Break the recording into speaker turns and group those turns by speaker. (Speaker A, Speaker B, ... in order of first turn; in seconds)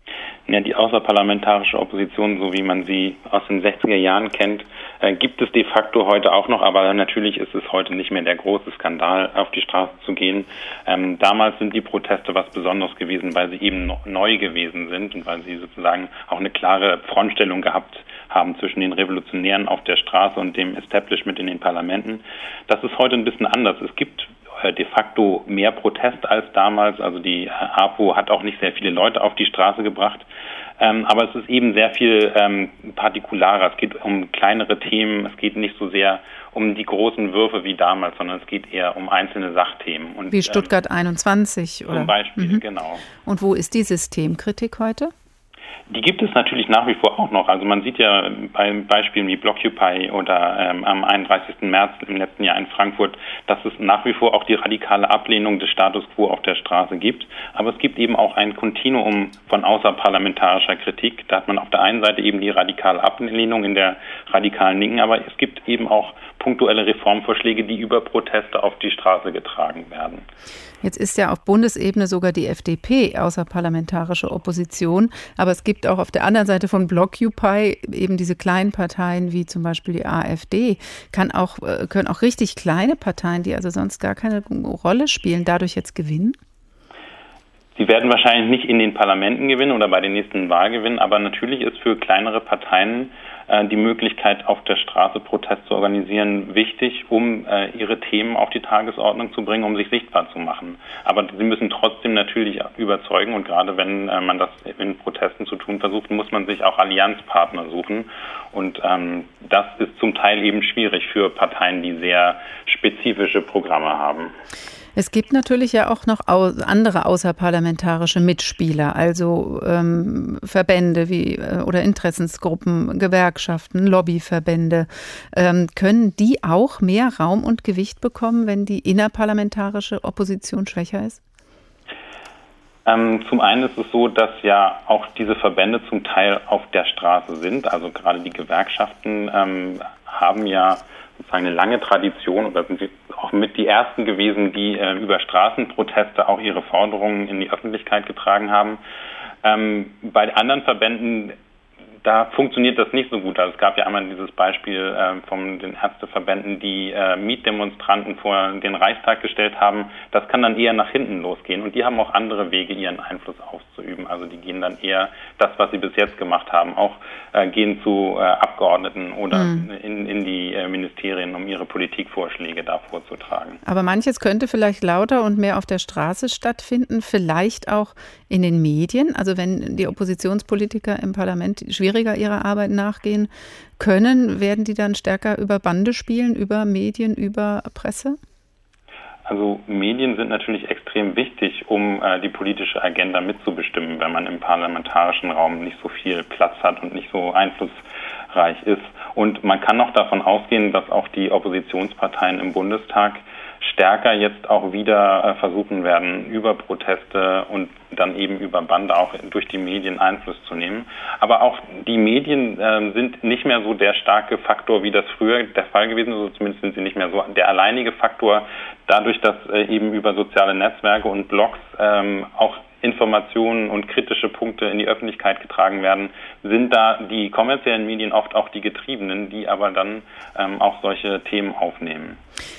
Speaker A: 0.5-30.2, 30.8-40.7, 41.9-43.0, 45.9-70.2, 87.8-114.3, 132.8-148.8, 149.4-151.3, 152.0-173.6, 189.3-232.2
Speaker B: 40.3-42.6, 43.2-45.1, 70.8-86.4, 115.0-131.2, 169.3-169.7, 173.6-188.2